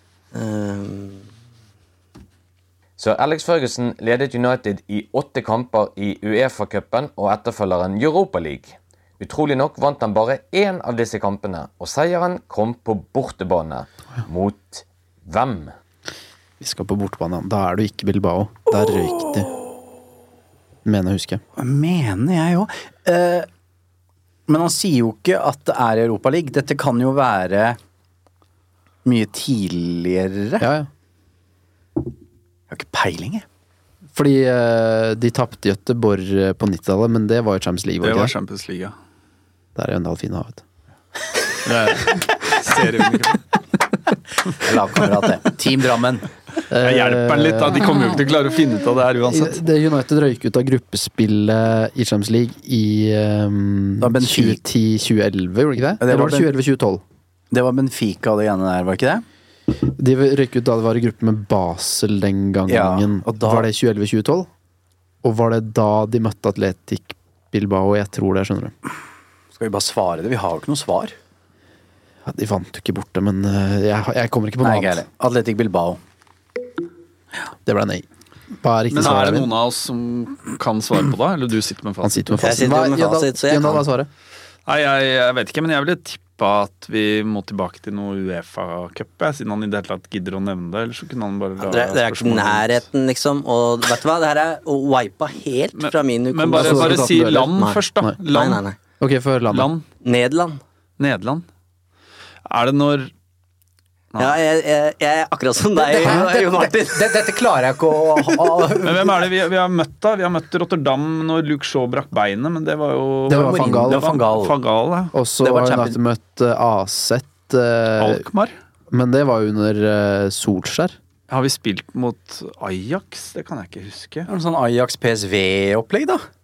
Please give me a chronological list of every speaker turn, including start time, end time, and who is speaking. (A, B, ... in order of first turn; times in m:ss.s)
0:00.3-0:01.3 A
0:03.0-0:15.7 B
0:16.6-0:19.5 C
0:20.8-0:21.4 C
0:21.6-0:23.5 D
0:24.5-0:27.8 D
0:29.0-0:30.7 D
0:30.6-0:30.9 C
0:32.7-0:33.4 D
0:34.2-0:38.3 C
0:38.0-0:38.9 E
0:39.8-0:40.6 C
0:41.7-0:43.4 E
0:44.6-0:46.3 D
0:46.7-0:48.0 C
0:46.8-0:49.6 E
0:49.3-0:57.0 C
0:54.0-0:54.6 D
0:56.0-0:56.5 D
0:57.5-0:59.2 D
0:59.7-1:04.5 C
1:02.7-1:03.7 D
1:05.2-1:08.7 C
1:09.6-1:11.2 D
1:12.2-1:15.0 C
1:14.6-1:16.0 D
1:17.6-1:19.5 C
1:18.9-1:22.5 E
1:22.0-1:24.1 C
1:22.4-1:23.8 A
1:24.7-1:32.8 E
1:31.6-1:38.8 A
1:35.8-1:38.6 E
1:36.5-1:38.2 C
1:39.0-1:39.7 C
1:39.5-1:39.8 E
1:40.0-1:40.6 A
1:41.0-1:41.4 E
1:42.5-1:43.1 E
1:44.2-1:47.2 A
1:45.8-1:49.2 D
1:48.8-1:55.1 E
1:53.3-1:54.2 C
1:53.3-1:54.6 D
1:55.1-1:58.2 C
1:55.4-1:56.0 D
1:58.0-1:58.5 E
1:58.9-2:01.0 C
2:01.3-2:04.3 E
2:04.3-2:06.2 D